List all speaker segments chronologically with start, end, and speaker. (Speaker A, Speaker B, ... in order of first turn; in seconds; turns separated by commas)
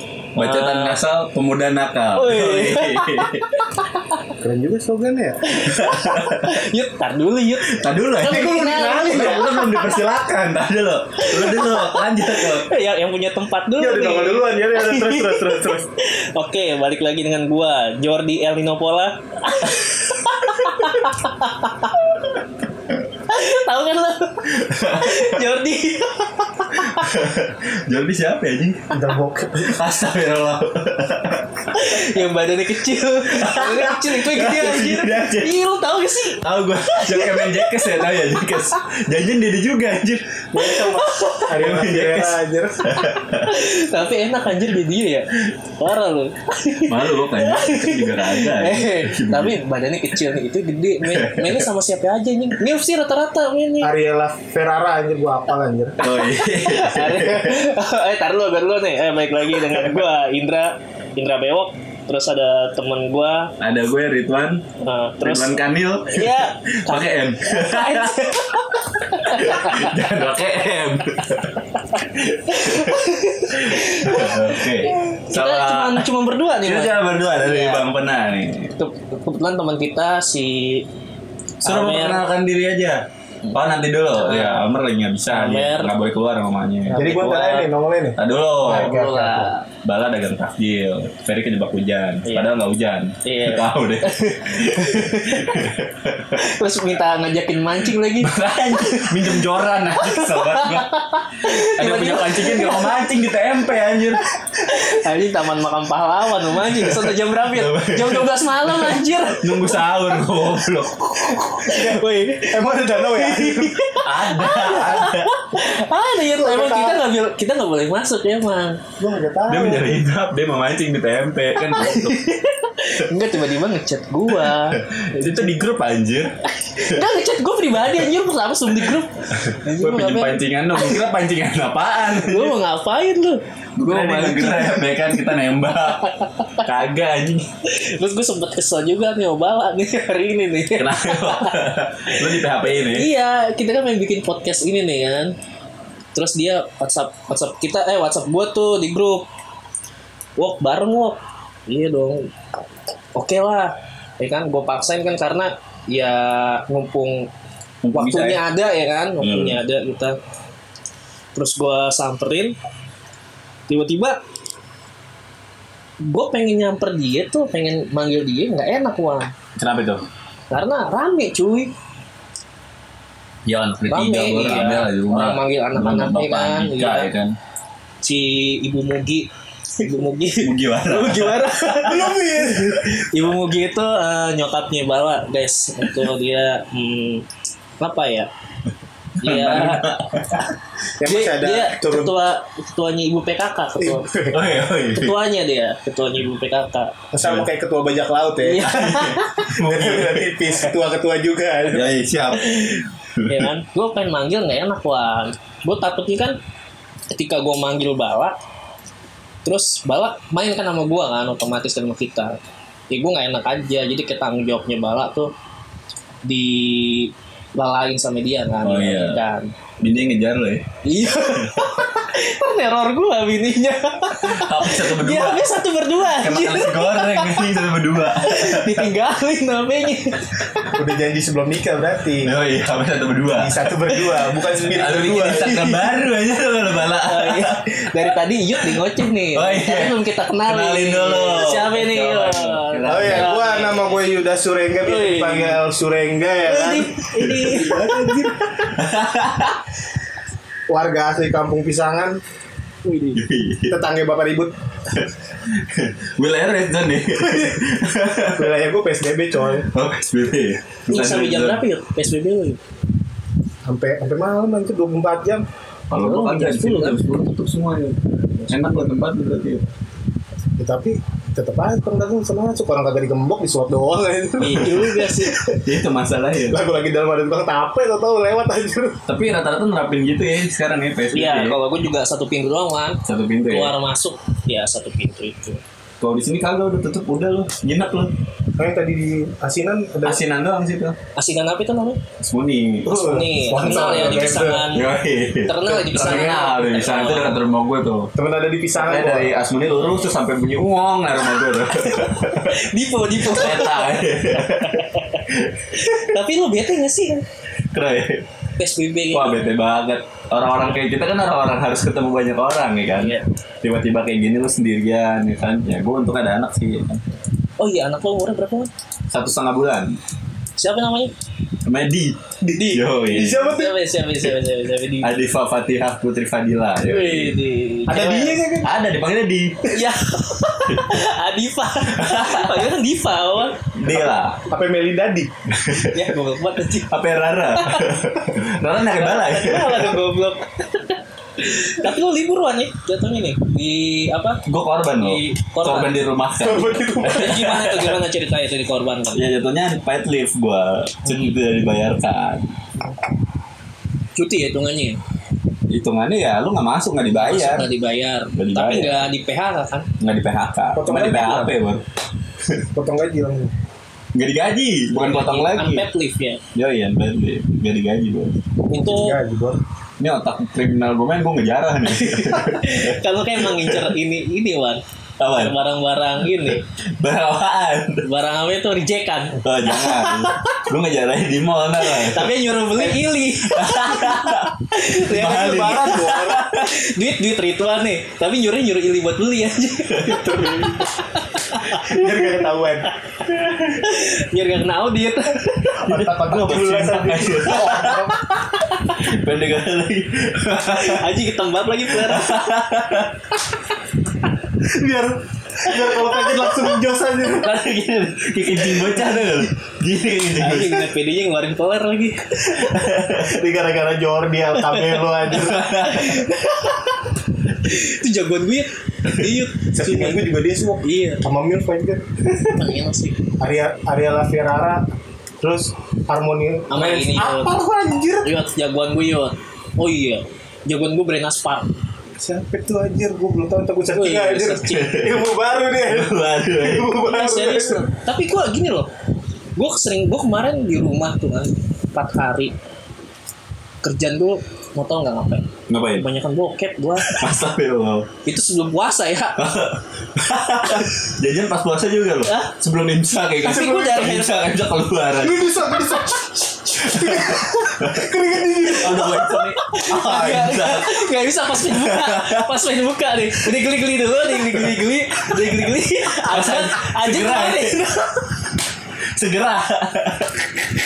Speaker A: 0.3-1.0, Speaker B: 0.4-3.6, Speaker A: 2.1-4.3, Speaker C: 4.4-5.4, Speaker A: 5.5-10.0, Speaker B: 5.6-6.5, Speaker B: 7.7-12.7, Speaker C: 8.3-9.5, Speaker A: 11.2-22.1, Speaker C: 13.8-15.9, Speaker A: 23.3-27.1, Speaker B: 24.5-25.4, Speaker B: 26.8-29.0, Speaker C: 28.9-29.8, Speaker B: 29.6-31.7, Speaker A: 31.7-38.5, Speaker B: 33.2-35.6, Speaker B: 36.4-40.8, Speaker C: 40.5-43.0, Speaker A: 40.6-41.5, Speaker B: 41.5-43.5, Speaker A: 43.0-53.9, Speaker B: 46.8-49.6, Speaker B: 51.0-51.7, Speaker C: 53.8-56.0, Speaker B: 56.0-57.7, Speaker A: 56.0-63.5, Speaker B: 59.7-60.0, Speaker B: 63.6-64.7, Speaker A: 64.8-70.0, Speaker B: 65.2-76.1, Speaker A: 71.9-77.9, Speaker B: 76.6-78.7, Speaker A: 78.8-80.9, Speaker A: 81.6-82.2, Speaker B: 81.6-87.0, Speaker A: 84.1-84.7, Speaker A: 85.3-86.0, Speaker A: 86.9-87.7, Speaker C: 86.9-89.5, Speaker B: 88.2-96.4, Speaker A: 92.2-92.5, Speaker A: 93.2-95.6, Speaker A: 96.3-103.1, Speaker B: 98.1-104.2, Speaker A: 104.6-110.0, Speaker B: 106.5-111.6, Speaker A: 111.4-118.8, Speaker C: 111.7-114.0, Speaker B: 114.0-115.3, Speaker C: 116.3-117.0, Speaker C: 119.0-119.9, Speaker B: 119.5-122.2, Speaker A: 121.6-124.8, Speaker B: 124.3-127.0, Speaker A: 126.6-131.0, Speaker B: 129.4-132.6, Speaker A: 132.2-135.2, Speaker B: 133.8-137.5, Speaker A: 135.8-136.7, Speaker A: 137.7-145.3, Speaker B: 140.8-143.1, Speaker A: 146.1-149.3, Speaker A: 150.4-152.4, Speaker A: 153.2-157.3, Speaker B: 157.8-158.4, Speaker A: 157.9-160.2, Speaker B: 159.2-159.6, Speaker A: 161.3-162.6, Speaker A: 163.7-164.2, Speaker A: 166.0-169.3, Speaker B: 169.6-170.0, Speaker A: 170.5-171.7, Speaker B: 173.5-177.3, Speaker A: 173.9-177.1, Speaker A: 178.0-182.1, Speaker B: 180.4-182.9, Speaker C: 181.9-182.8, Speaker A: 182.9-187.3, Speaker A: 187.8-188.3, Speaker B: 189.2-190.5, Speaker A: 189.2-189.9, Speaker C: 191.0-192.2, Speaker A: 191.0-194.1, Speaker C: 193.8-194.4, Speaker B: 194.3-195.2, Speaker A: 194.9-197.0, Speaker C: 197.1-202.4, Speaker B: 197.2-197.5, Speaker A: 198.4-199.5, Speaker B: 198.6-200.5, Speaker B: 201.7-203.5, Speaker A: 202.4-206.4, Speaker A: 207.1-208.4, Speaker A: 209.4-215.3, Speaker A: 216.2-219.6, Speaker B: 218.6-219.2, Speaker B: 219.8-220.7, Speaker A: 220.8-227.6, Speaker B: 221.3-221.7, Speaker B: 224.2-225.5, Speaker B: 226.1-228.9, Speaker A: 228.1-230.7, Speaker C: 230.7-232.4, Speaker B: 232.2-238.0, Speaker C: 233.3-235.7, Speaker A: 234.5-235.6, Speaker A: 237.0-244.0, Speaker B: 239.3-243.4, Speaker C: 242.9-248.4, Speaker A: 244.8-245.6, Speaker A: 246.5-248.3, Speaker B: 247.2-247.7, Speaker B: 248.7-249.7, Speaker C: 250.7-252.2, Speaker A: 252.8-253.2, Speaker B: 253.1-253.8, Speaker C: 253.7-254.5, Speaker B: 254.9-258.5, Speaker C: 257.3-257.6, Speaker C: 258.3-259.7, Speaker B: 259.7-261.6, Speaker A: 260.9-262.6, Speaker C: 263.7-265.5, Speaker B: 265.9-269.7, Speaker A: 266.0-267.1, Speaker A: 268.4-268.8, Speaker C: 270.6-275.6, Speaker A: 274.4-275.4, Speaker B: 275.5-276.6, Speaker C: 276.5-279.0, Speaker B: 279.1-281.6, Speaker A: 281.1-285.6, Speaker B: 283.1-283.7, Speaker B: 286.0-288.1, Speaker C: 288.6-290.2, Speaker B: 290.0-291.0, Speaker A: 291.2-292.0, Speaker B: 292.2-292.9, Speaker C: 292.9-294.7, Speaker A: 292.9-297.4, Speaker B: 293.5-298.1, Speaker C: 298.2-299.3, Speaker B: 298.8-306.1, Speaker A: 301.9-307.2, Speaker B: 307.7-308.2, Speaker A: 308.6-309.4, Speaker B: 309.1-317.0, Speaker A: 313.0-313.2, Speaker A: 317.6-318.7, Speaker B: 319.1-319.9, Speaker A: 320.6-321.1, Speaker B: 321.6-323.6, Speaker A: 322.5-325.1, Speaker C: 323.1-323.7, Speaker B: 325.0-329.7, Speaker A: 326.8-328.0, Speaker C: 327.9-328.7, Speaker A: 329.6-333.7, Speaker B: 330.7-331.0, Speaker B: 331.9-332.7, Speaker B: 333.7-334.4, Speaker C: 334.5-335.3, Speaker B: 335.5-336.1, Speaker A: 335.8-336.9, Speaker B: 336.9-340.0, Speaker A: 337.5-337.9, Speaker A: 338.9-344.4, Speaker B: 344.5-348.0, Speaker A: 344.9-346.0, Speaker C: 346.4-347.5, Speaker A: 347.1-349.2, Speaker B: 349.1-352.6, Speaker A: 351.1-351.3, Speaker A: 354.2-355.0, Speaker B: 355.7-357.7, Speaker A: 357.1-359.9, Speaker B: 358.3-359.0, Speaker B: 360.0-361.8, Speaker C: 360.8-361.6, Speaker C: 362.8-363.5, Speaker B: 364.1-365.9, Speaker A: 364.9-366.4, Speaker B: 366.5-368.4, Speaker A: 368.7-369.2, Speaker C: 368.7-369.6, Speaker B: 370.0-374.0, Speaker A: 371.9-376.6, Speaker B: 375.2-375.6, Speaker B: 376.3-378.1, Speaker A: 378.1-380.6, Speaker B: 379.4-382.3, Speaker A: 381.8-392.3, Speaker B: 383.4-386.7, Speaker C: 385.1-386.5, Speaker B: 390.1-390.8, Speaker C: 390.2-390.7, Speaker C: 391.8-392.9, Speaker A: 393.6-395.8, Speaker B: 395.8-398.1, Speaker C: 395.8-398.3, Speaker A: 398.5-399.0, Speaker B: 398.9-401.2, Speaker A: 400.7-402.5, Speaker B: 401.9-403.3, Speaker C: 404.6-407.6, Speaker B: 407.3-410.9, Speaker A: 410.4-412.4, Speaker B: 412.5-413.5, Speaker C: 413.2-415.7, Speaker A: 414.6-416.9, Speaker B: 415.3-416.3, Speaker A: 417.6-420.3, Speaker C: 419.7-422.5, Speaker A: 420.8-421.2, Speaker A: 422.5-423.2, Speaker C: 423.4-424.8, Speaker C: 425.4-428.3, Speaker A: 426.7-427.5, Speaker A: 428.2-431.7, Speaker C: 432.2-437.9, Speaker A: 433.9-434.8, Speaker B: 434.7-435.2, Speaker B: 435.8-436.9, Speaker A: 437.1-438.9, Speaker A: 439.6-442.5, Speaker A: 443.8-447.3, Speaker B: 445.7-446.1, Speaker B: 447.0-448.1, Speaker A: 448.2-449.4, Speaker B: 449.4-455.5, Speaker A: 452.3-452.5, Speaker A: 453.4-454.4, Speaker C: 453.5-454.2, Speaker C: 455.2-459.3, Speaker B: 456.8-458.1, Speaker B: 458.7-461.0, Speaker A: 458.7-468.4, Speaker B: 461.6-462.5, Speaker B: 466.2-467.8, Speaker B: 469.1-470.5